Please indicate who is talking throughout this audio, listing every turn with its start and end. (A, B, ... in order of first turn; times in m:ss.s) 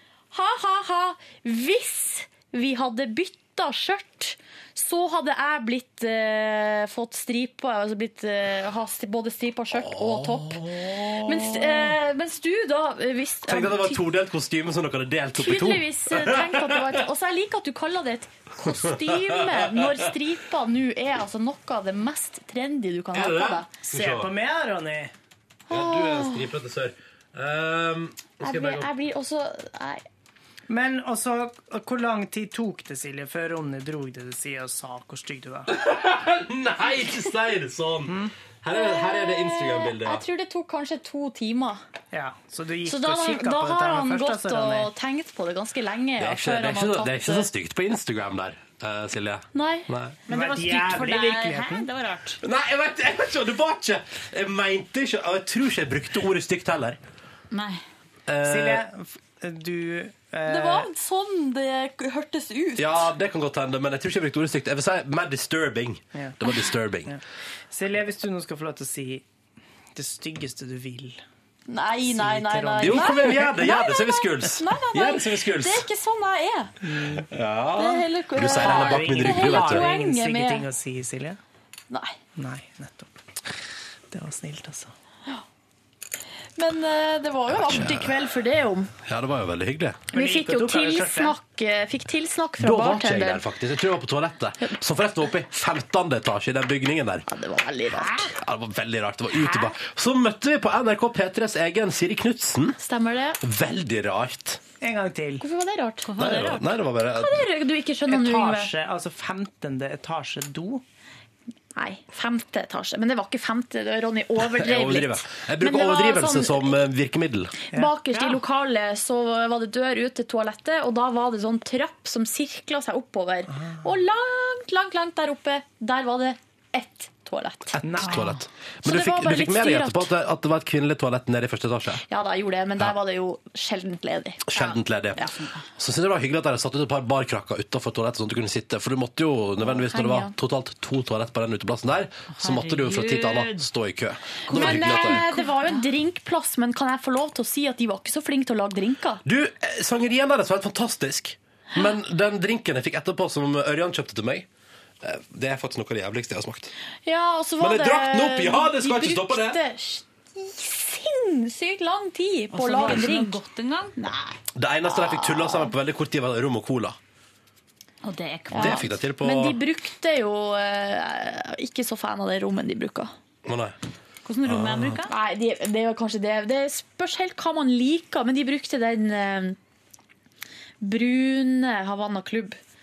0:00.3-0:14.0 A
0:09.7-0:12.0 B
0:13.4-0:17.0 B
0:15.4-0:23.9 A
0:18.8-0:20.0 B
0:23.1-0:24.3 B
0:23.9-0:25.1 C
0:25.7-0:26.5 A
0:25.7-0:28.9 B
0:28.4-0:30.0 A
0:30.7-0:35.7 C
0:35.7-0:40.2 B
0:38.0-0:38.3 C
0:38.7-0:41.8 A
0:42.1-0:44.9 C
0:42.8-0:47.5 A
0:46.2-0:50.2 B
0:49.5-0:49.9 A
0:50.3-0:52.4 D
0:50.3-0:51.9 C
0:52.4-0:57.0 B
0:57.5-0:57.8 D
0:58.3-0:58.8 B
0:58.4-1:00.9 C
1:00.5-1:03.1 A
1:02.8-1:07.2 B
1:07.1-1:09.2 C
1:09.9-1:11.2 C
1:11.7-1:16.7 A
1:12.0-1:13.4 C
1:12.8-1:15.9 B
1:16.8-1:17.3 C
1:17.3-1:19.9 B
1:17.8-1:20.7 A
1:18.4-1:21.4 C
1:21.9-1:22.2 A
1:22.4-1:23.2 C
1:24.1-1:24.9 C
1:26.6-1:28.9 A
1:27.5-1:28.2 B
1:29.0-1:30.1 B
1:30.1-1:31.4 C
1:30.1-1:33.4 A
1:32.6-1:37.3 B
1:37.3-1:38.3 A
1:37.9-1:38.2 C
1:38.3-1:42.8 B
1:42.8-1:43.4 A
1:43.4-1:44.6 B
1:44.8-1:45.4 C
1:45.4-1:46.1 A
1:46.0-1:46.7 D
1:46.2-1:47.5 B
1:47.1-1:48.7 A
1:48.1-1:50.8 C
1:51.8-1:56.8 A
1:54.4-1:57.6 B
1:57.7-1:58.4 C
1:57.7-2:08.2 A
2:07.8-2:08.4 C
2:07.9-2:12.0 B
2:08.8-2:10.1 A
2:12.1-2:15.3 A
2:14.5-2:25.3 B
2:15.2-2:15.6 D
2:19.6-2:20.3 A
2:22.3-2:23.7 D
2:24.5-2:25.9 D
2:24.5-2:29.2 A
2:29.2-2:34.5 B
2:35.0-2:36.7 B
2:37.0-2:43.4 A
2:37.6-2:39.6 B
2:42.5-2:44.4 D
2:44.6-2:47.0 B
2:44.9-2:45.7 A
2:48.0-2:48.9 D
2:48.5-2:53.1 A
2:48.5-2:49.6 B
2:53.4-2:53.8 B
2:54.2-2:55.1 D
2:54.4-2:55.0 B
2:55.1-2:59.6 A
3:00.8-3:02.6 A